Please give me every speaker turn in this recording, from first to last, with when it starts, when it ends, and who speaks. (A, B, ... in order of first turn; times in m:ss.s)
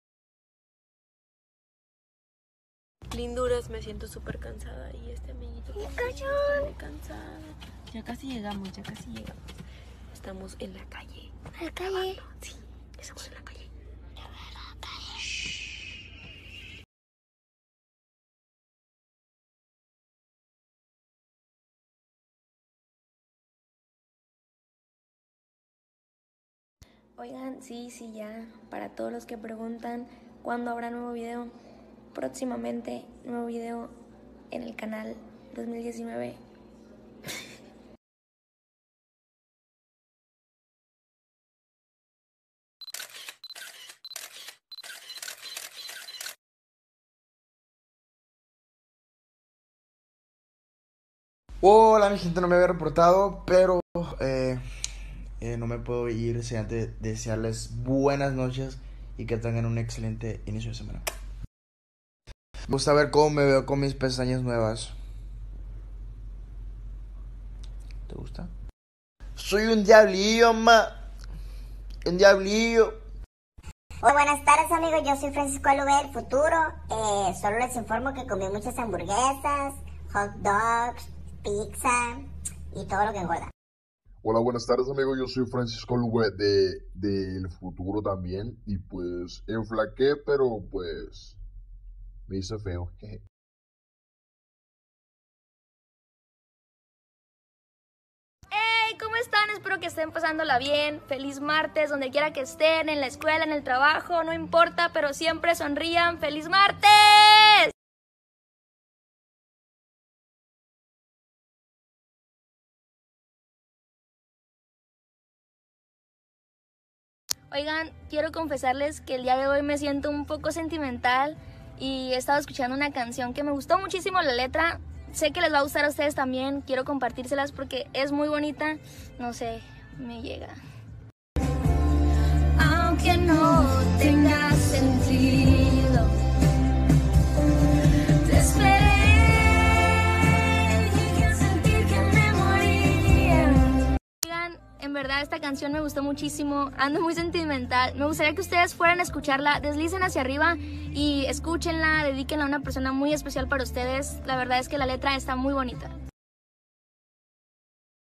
0:03.1-0:09.4 A
0:05.8-0:06.7 B
0:10.1-0:11.4 A
0:11.6-0:12.2 B
0:11.9-0:13.7 A
0:27.2-0:31.5 B
0:32.1-0:33.9 B
0:34.5-0:36.4 B
0:51.6-0:54.6 C
0:55.4-1:01.0 C
1:02.7-1:04.9 C
1:08.1-1:08.5 C
1:09.4-1:10.9 C
1:12.0-1:13.0 C
1:14.0-1:23.5 D
1:24.2-1:31.4 E
1:32.3-1:33.2 E
1:38.5-1:47.7 B
1:57.5-2:10.6 B
2:12.5-2:16.1 B
2:18.2-2:23.7 B
2:24.2-2:35.9 B